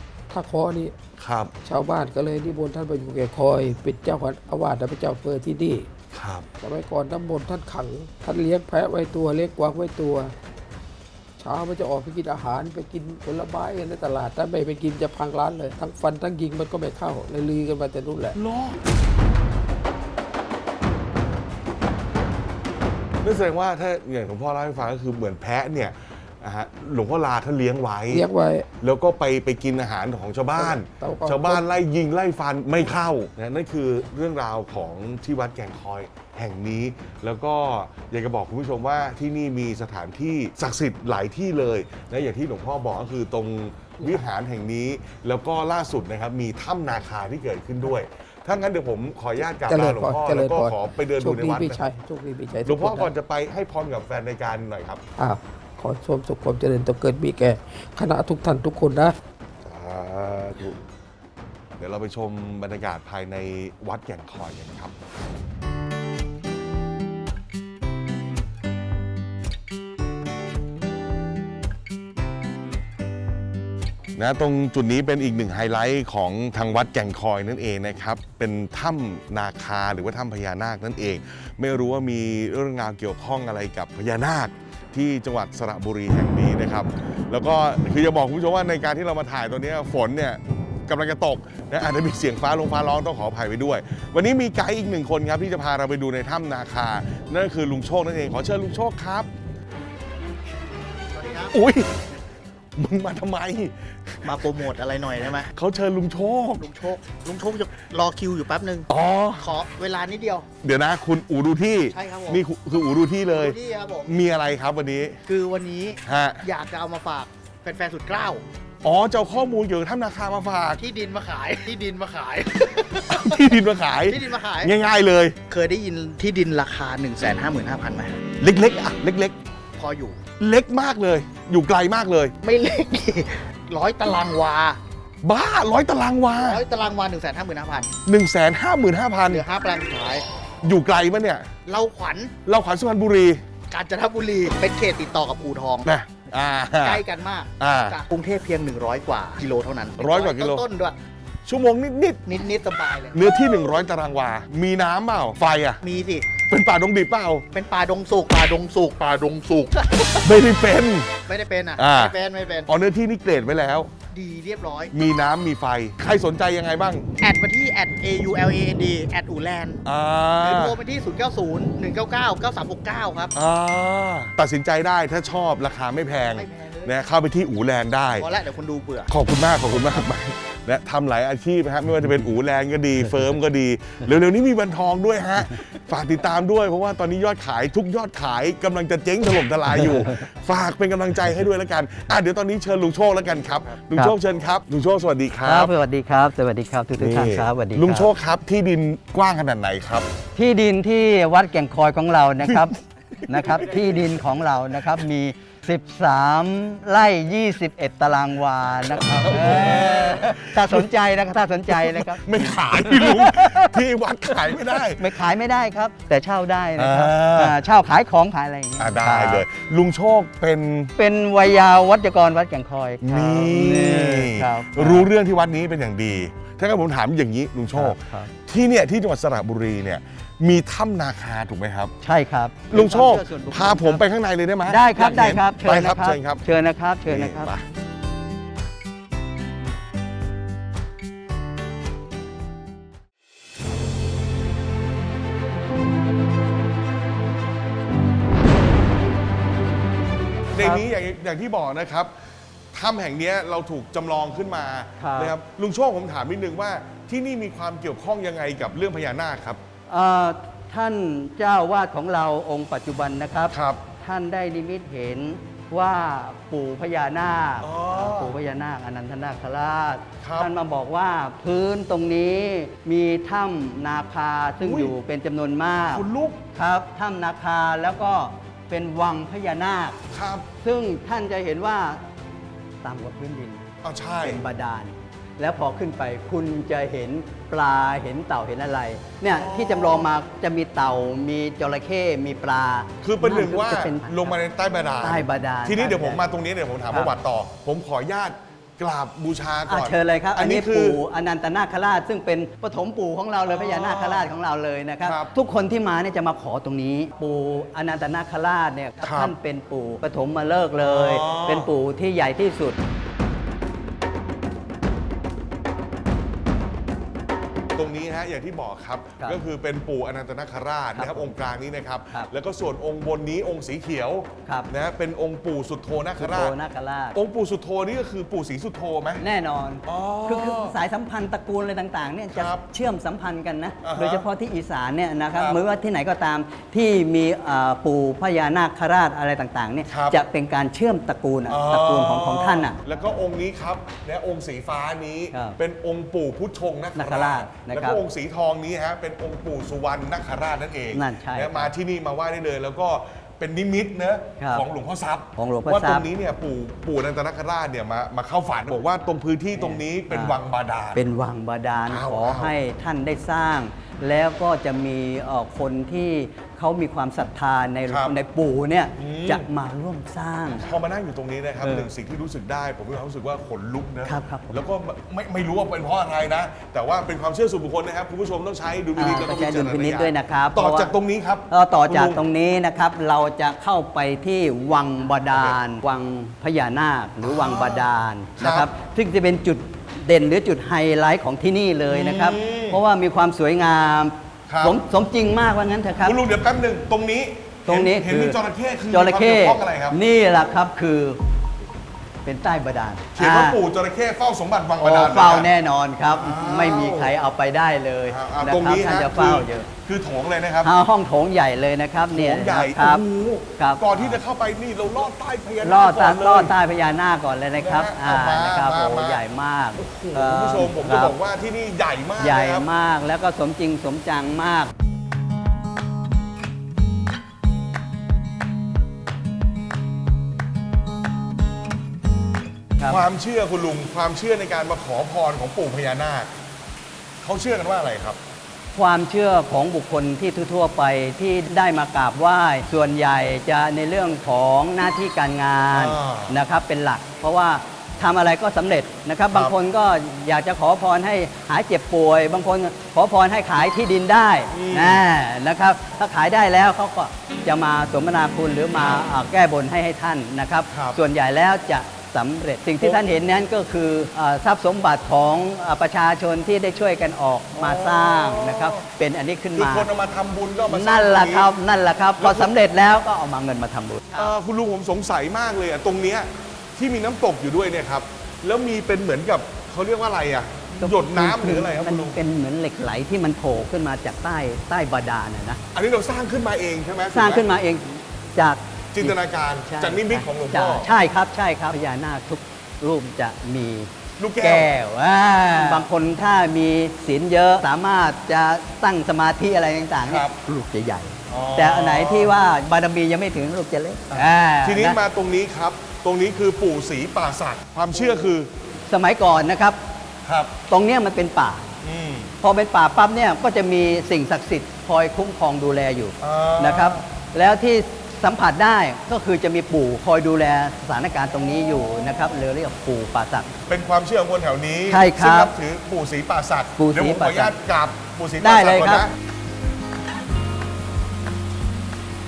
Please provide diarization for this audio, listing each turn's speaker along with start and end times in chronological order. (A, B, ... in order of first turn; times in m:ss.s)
0:00.3-0:00.9 A
0:01.2-0:01.5 B
0:01.6-0:05.9 A
0:06.1-0:06.5 B
0:06.6-0:10.3 A
0:11.4-0:18.4 A
0:18.3-0:18.8 B
0:23.2-0:28.2 B
0:28.1-0:28.7 A
0:28.8-0:51.8 B
0:30.6-0:31.6 A
0:49.6-0:53.1 A
0:52.6-0:55.0 B
0:55.2-0:59.1 A
0:59.6-1:00.8 B
1:01.8-1:04.9 B
1:14.2-1:39.3 B
1:41.1-1:41.5 C
1:41.5-1:42.0 B
1:42.8-1:44.5 B
1:44.2-1:45.5 C
1:45.4-1:46.7 B
1:46.6-1:50.4 C
1:48.9-1:49.6 B
1:50.6-1:55.2 B
1:51.8-1:52.4 C
1:53.3-1:54.2 C
1:55.2-1:58.4 C
1:56.0-1:56.4 B
1:58.8-2:00.8 B
2:00.8-2:03.3 C
2:03.0-2:05.4 B
2:04.0-2:04.7 C
2:05.5-2:08.2 C
2:08.4-2:09.4 B
2:09.8-2:10.2 C
2:10.4-2:12.3 B
2:12.4-2:14.8 C
2:15.2-2:16.6 B
2:16.4-2:17.9 C
2:18.0-2:19.5 B
2:19.3-2:20.2 C
2:20.6-2:21.5 B
2:21.6-2:22.3 C
2:22.4-2:23.4 B
2:23.7-2:25.9 C
2:25.8-2:28.0 B
2:26.8-2:31.0 C
2:30.0-2:30.7 B
2:31.4-2:35.8 B
2:32.3-2:33.2 C
2:35.8-2:36.3 C
2:36.4-2:37.4 B
2:37.5-2:40.3 C
2:40.2-2:41.1 B
2:41.3-2:42.7 C
2:41.8-2:43.9 B
2:44.1-2:44.9 C
2:44.9-2:47.0 B
2:47.2-2:49.8 C
2:49.8-2:50.8 B
2:50.4-2:53.3 C
2:53.3-2:58.3 B
2:56.3-2:56.9 C
2:58.2-2:59.1 C
2:59.1-3:15.7 B
3:15.4-3:18.1 D
3:17.0-3:20.1 B
3:20.3-3:22.7 D
3:22.4-3:24.0 B
3:23.3-3:32.2 D
3:28.8-3:30.9 B
3:31.7-3:35.2 B
3:32.8-3:33.8 D
3:35.0-3:39.4 D
3:36.8-3:37.6 B
3:38.8-3:40.9 B
3:41.0-3:45.1 D
3:43.0-3:51.9 B
3:47.7-3:48.3 D
3:52.0-3:54.0 D
3:52.7-3:56.4 B
3:54.7-3:57.5 D
3:57.0-3:57.6 B
4:10.5-4:12.1 B
4:12.7-4:19.6 B
4:15.0-4:15.3 D
4:19.9-4:40.0 D
4:23.5-4:23.8 B
4:27.6-4:28.4 B
4:30.2-4:30.5 B
4:34.6-4:35.0 B
4:35.9-4:36.4 B
4:40.1-4:40.4 B
4:40.6-4:42.0 D
4:42.8-4:43.6 D
4:43.8-4:44.4 B
4:44.2-4:54.4 D
4:49.2-4:50.2 B
4:53.0-5:01.0 B
4:55.0-4:56.2 D
4:59.7-5:12.8 D
5:03.4-5:04.3 B
5:05.0-5:05.3 B
5:09.0-5:09.3 B
5:10.8-5:11.7 B
5:17.7-5:26.6 B
5:20.9-5:21.3 D
5:26.2-5:27.2 D
5:27.1-5:29.2 B
5:29.2-5:42.8 D
5:29.8-5:30.8 B
5:32.3-5:32.7 B
5:33.8-5:34.3 B
5:35.3-5:35.6 B
5:39.9-5:40.2 B
5:41.5-6:01.0 B
5:46.9-5:48.0 D
5:50.9-5:51.7 D
5:54.4-5:54.6 D
5:55.4-5:56.1 D
5:59.6-6:00.4 D
6:00.9-6:10.7 D
6:01.9-6:02.5 B
6:07.9-6:08.2 B
6:09.0-6:09.5 B
6:10.5-6:22.2 B
6:11.6-6:11.9 D
6:14.0-6:14.6 D
6:19.0-6:20.9 D
6:21.5-6:36.2 D
6:25.3-6:25.6 B
6:27.2-6:28.7 B
6:31.9-6:32.8 B
6:34.5-6:34.8 B
6:36.0-6:40.0 B
6:37.7-6:38.4 D
6:38.9-6:41.2 D
6:42.2-6:43.6 D
6:43.2-6:45.5 B
6:44.8-6:49.7 D
6:46.1-6:47.1 B
6:48.0-6:50.7 B
6:50.6-6:53.0 D
6:52.1-6:56.6 B
6:53.6-6:54.2 D
6:55.6-7:01.1 D
6:57.6-6:59.2 B
6:59.8-7:02.7 B
7:02.2-7:04.7 D
7:12.8-7:13.0 D
7:12.9-7:16.3 B
7:17.2-7:18.2 B
7:18.7-7:49.8 D
7:25.7-7:26.3 B
7:34.5-7:35.0 B
7:40.7-7:41.0 B
7:42.8-7:43.0 B
7:47.5-7:48.8 B
7:49.5-7:51.5 B
7:50.7-7:54.3 D
7:52.2-7:52.5 B
7:54.1-8:02.2 B
8:00.8-8:05.6 D
8:05.7-8:07.4 B
8:07.1-8:25.0 D
8:08.9-8:10.9 B
8:14.2-8:14.7 B
8:15.5-8:15.8 B
8:20.0-8:20.4 B
8:21.3-8:22.3 B
8:24.1-8:28.5 B
8:28.9-8:29.8 D
8:30.2-8:30.5 B
8:30.7-8:31.7 D
8:31.8-8:32.3 B
8:32.4-8:43.6 D
8:36.2-8:37.0 B
8:43.7-8:49.1 B
8:44.9-8:45.5 D
8:46.8-8:47.5 D
8:48.4-8:49.1 D